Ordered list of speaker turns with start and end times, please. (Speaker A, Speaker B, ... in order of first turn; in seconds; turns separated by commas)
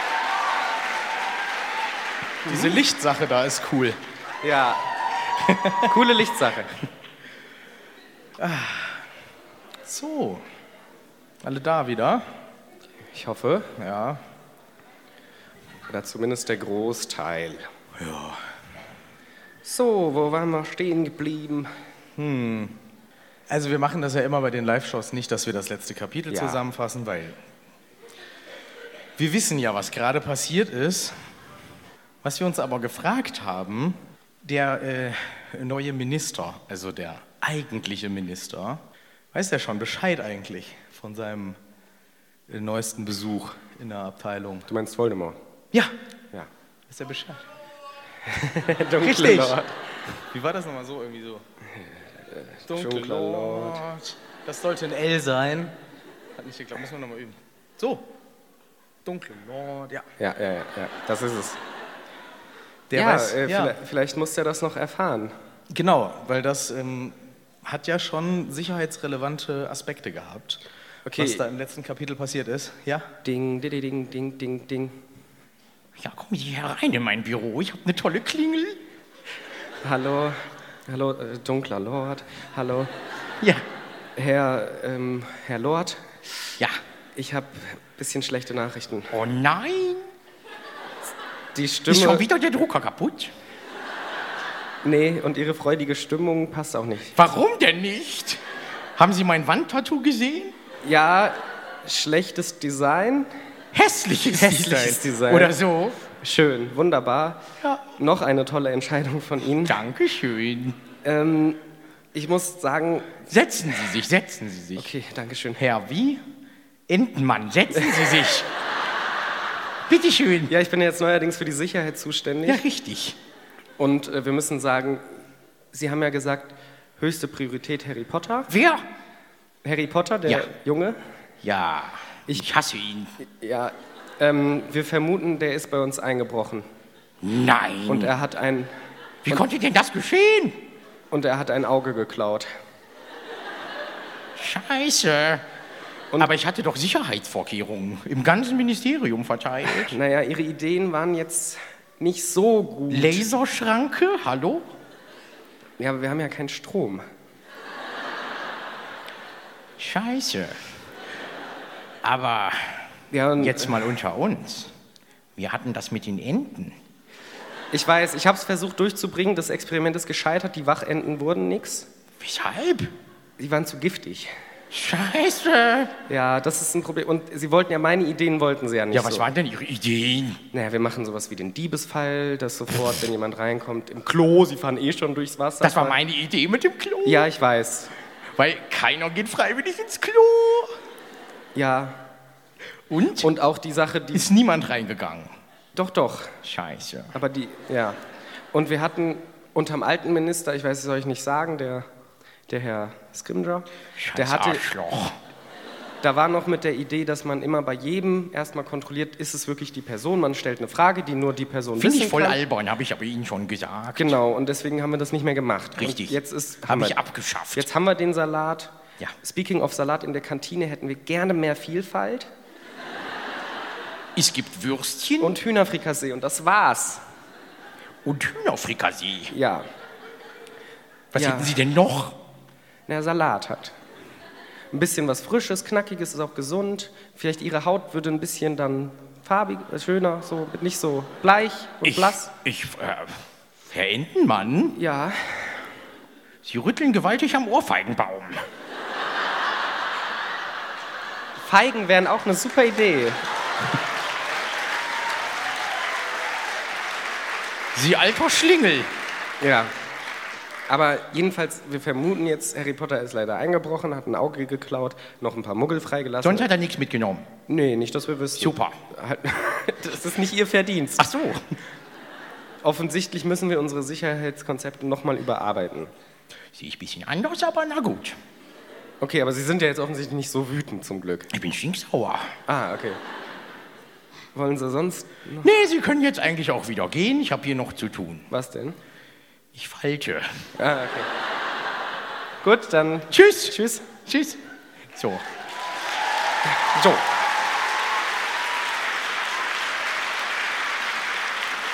Speaker A: 2.5-2.7, Speaker B: 2.5-4.0, Speaker A: 4.4-4.9, Speaker B: 5.5-5.9, Speaker A: 5.8-6.7, Speaker B: 8.4-9.1, Speaker B: 9.8-10.4, Speaker B: 11.4-12.3, Speaker A: 13.1-13.7, Speaker B: 13.8-14.2, Speaker A: 15.9-17.7, Speaker B: 18.0-18.4, Speaker A: 19.6-21.7, Speaker B: 22.2-22.8, Speaker B: 23.5-27.4, Speaker A: 26.3-26.6, Speaker B: 29.2-31.2, Speaker B: 32.2-38.8, Speaker B: 39.3-41.6, Speaker B: 42.5-44.7, Speaker A: 44.7-45.4, Speaker B: 46.9-47.5, Speaker A: 48.3-50.0, Speaker B: 49.0-49.6, Speaker B: 50.2-51.4, Speaker A: 52.3-53.8, Speaker B: 52.7-55.8, Speaker B: 56.4-58.1, Speaker B: 59.0-60.1, Speaker A: 60.2-61.6, Speaker B: 62.9-63.8, Speaker A: 62.9-65.3, Speaker B: 65.7-70.6, Speaker A: 71.0-71.4, Speaker B: 71.2-73.1, Speaker A: 73.2-75.0, Speaker C: 76.0-78.8, Speaker A: 79.8-82.9, Speaker A: 84.2-86.2, Speaker A: 87.2-89.2, Speaker C: 89.1-90.0, Speaker A: 91.5-92.2, Speaker C: 91.9-93.3, Speaker A: 94.8-97.2, Speaker C: 97.2-98.4, Speaker C: 99.0-100.5, Speaker A: 100.8-103.3, Speaker C: 103.7-106.1, Speaker A: 104.3-105.5, Speaker A: 106.2-107.4, Speaker A: 108.0-109.8, Speaker C: 109.7-110.8, Speaker A: 111.0-111.6, Speaker A: 112.1-113.2, Speaker C: 113.3-114.9, Speaker A: 114.8-115.6, Speaker C: 116.9-118.5, Speaker C: 119.9-120.5, Speaker A: 120.5-122.6, Speaker C: 122.5-123.2, Speaker A: 123.8-125.2, Speaker A: 125.7-128.5, Speaker C: 128.5-128.8, Speaker A: 129.6-131.0, Speaker C: 131.4-133.1, Speaker A: 133.2-136.7, Speaker C: 137.2-138.1, Speaker A: 137.9-138.7, Speaker C: 139.2-140.6, Speaker A: 141.1-142.5, Speaker C: 144.4-145.4, Speaker C: 146.2-149.9, Speaker A: 149.7-153.2, Speaker C: 152.9-154.7, Speaker A: 155.8-157.1, Speaker C: 159.8-160.6, Speaker C: 162.0-164.7, Speaker A: 163.1-163.9, Speaker C: 165.4-166.7, Speaker A: 167.7-171.9, Speaker C: 172.2-172.9, Speaker A: 173.4-174.3, Speaker C: 174.7-175.9, Speaker A: 176.1-179.3, Speaker C: 178.9-180.4, Speaker A: 180.5-186.0, Speaker C: 185.6-187.3, Speaker A: 187.1-187.9, Speaker C: 188.4-190.7, Speaker A: 191.6-192.0, Speaker C: 192.9-193.3, Speaker A: 193.2-194.2, Speaker C: 194.1-195.3, Speaker A: 195.7-196.4, Speaker C: 196.4-197.1, Speaker A: 197.1-198.0, Speaker A: 198.5-201.9, Speaker A: 202.5-204.6, Speaker C: 203.9-205.2, Speaker A: 206.0-212.4, Speaker C: 211.8-214.2, Speaker A: 213.9-217.0, Speaker C: 215.8-217.7, Speaker A: 217.5-222.3, Speaker C: 224.2-225.4, Speaker A: 225.2-227.0, Speaker C: 228.1-229.3, Speaker A: 229.3-229.7, Speaker C: 231.1-232.2, Speaker A: 231.2-231.6, Speaker A: 232.9-233.7, Speaker A: 234.7-242.3, Speaker C: 241.8-244.8, Speaker A: 244.7-245.6, Speaker C: 246.4-248.4, Speaker A: 251.4-253.2, Speaker C: 257.7-258.9, Speaker A: 259.4-259.7, Speaker A: 260.7-266.5, Speaker C: 266.2-267.3, Speaker A: 267.5-271.2, Speaker C: 268.4-268.8, Speaker C: 271.0-271.4, Speaker A: 272.6-275.9, Speaker C: 276.6-278.2, Speaker A: 279.0-281.3, Speaker C: 281.3-282.3, Speaker A: 282.5-283.0, Speaker A: 284.4-285.5, Speaker C: 285.4-288.3, Speaker A: 288.3-288.8, Speaker C: 289.6-290.5, Speaker A: 290.6-291.1, Speaker A: 292.4-293.9, Speaker C: 293.1-294.4, Speaker C: 294.9-295.2, Speaker A: 296.6-297.1